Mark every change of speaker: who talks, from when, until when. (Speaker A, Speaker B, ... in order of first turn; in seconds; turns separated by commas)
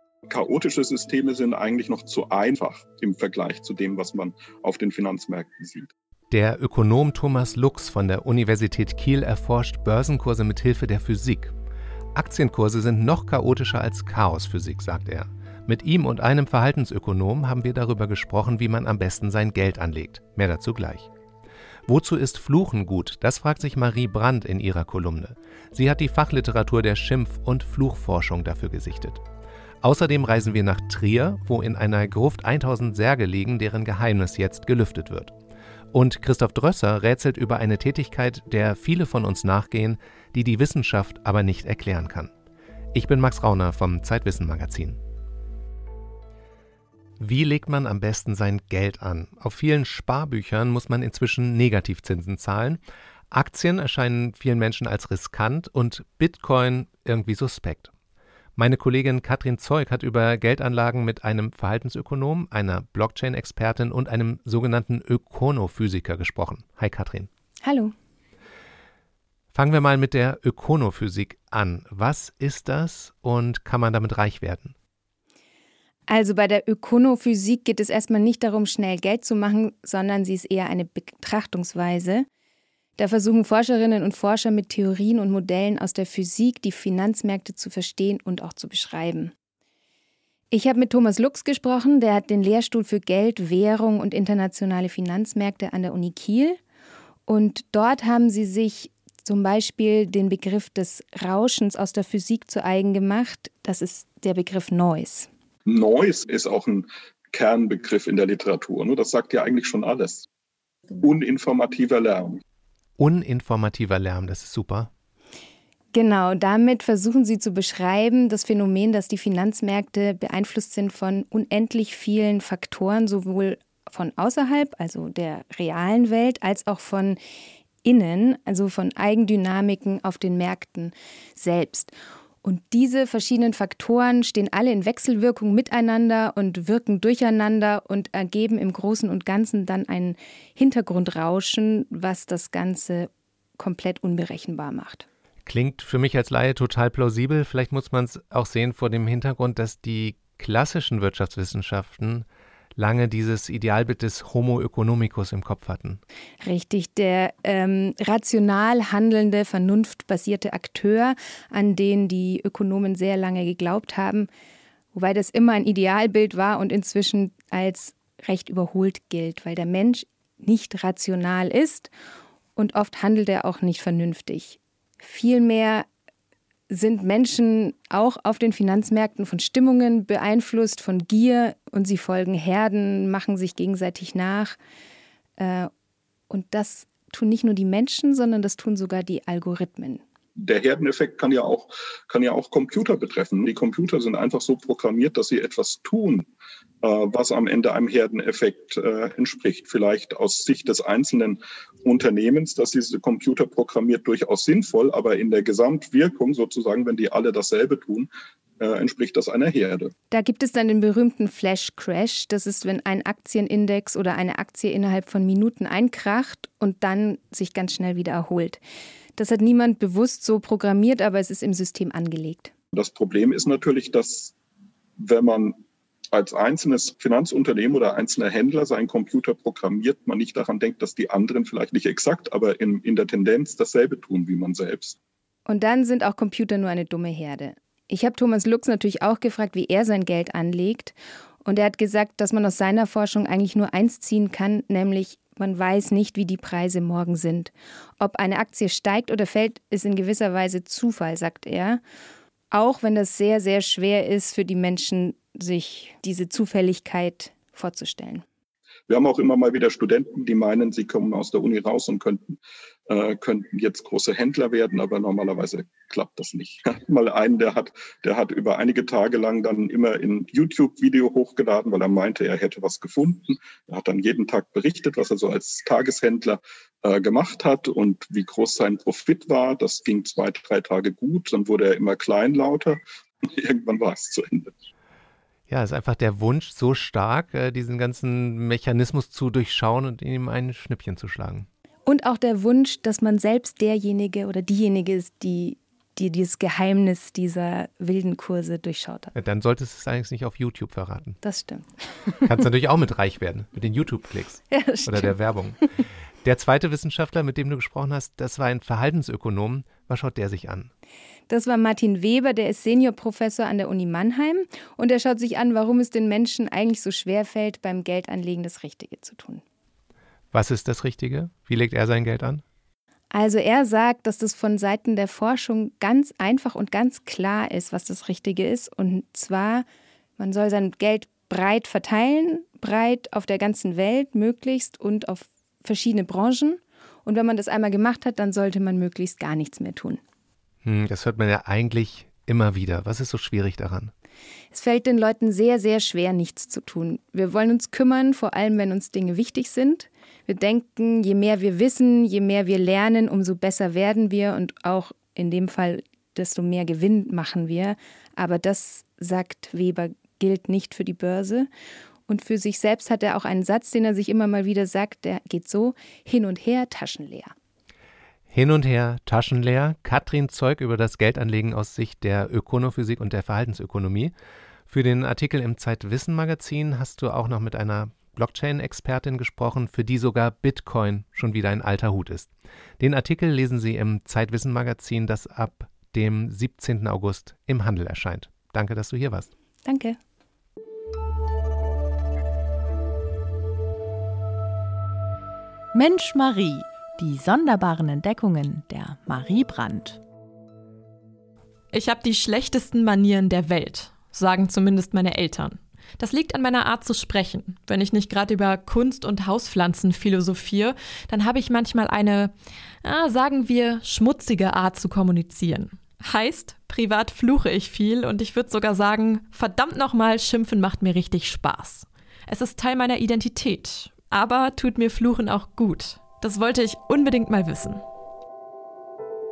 Speaker A: 0.3-5.9, Speaker B: 6.3-11.5, Speaker B: 12.2-21.1, Speaker B: 21.9-29.2, Speaker B: 29.8-35.3, Speaker B: 35.9-42.3, Speaker B: 42.9-45.0, Speaker B: 47.2-52.8, Speaker B: 53.3-57.9, Speaker B: 58.5-67.3, Speaker C: 67.6-67.9, Speaker B: 69.5-74.7, Speaker C: 76.1-82.2, Speaker C: 83.0-89.3, Speaker C: 90.5-96.6, Speaker C: 97.3-105.3, Speaker A: 105.7-110.2, Speaker A: 110.9-112.4, Speaker B: 113.0-114.9, Speaker C: 115.9-127.2, Speaker C: 127.8-145.1, Speaker B: 145.4-156.0, Speaker C: 156.4-164.3, Speaker C: 164.9-171.9, Speaker C: 172.6-175.9, Speaker C: 176.7-184.6, Speaker C: 185.4-185.7, Speaker C: 186.3-190.0, Speaker A: 190.4-196.3, Speaker A: 196.8-209.9, Speaker C: 210.1-218.6, Speaker C: 219.2-222.5, Speaker A: 222.7-224.3, Speaker A: 225.0-225.6, Speaker A: 226.1-235.0, Speaker C: 235.5-251.8, Speaker C: 252.5-258.2, Speaker A: 258.9-284.5, Speaker B: 285.5-291.5, Speaker C: 291.9-299.1, Speaker B: 299.1-301.2, Speaker C: 301.2-302.3, Speaker B: 302.3-305.6, Speaker C: 304.5-305.1, Speaker B: 306.2-310.7, Speaker C: 311.3-319.4, Speaker B: 320.3-322.4, Speaker C: 323.1-329.6, Speaker C: 330.2-340.0, Speaker B: 340.6-343.9, Speaker C: 344.5-361.5, Speaker C: 362.1-367.3, Speaker B: 368.3-374.1, Speaker B: 374.7-389.3, Speaker C: 389.6-390.0, Speaker D: 395.7-400.0, Speaker E: 401.7-412.3, Speaker E: 412.8-427.8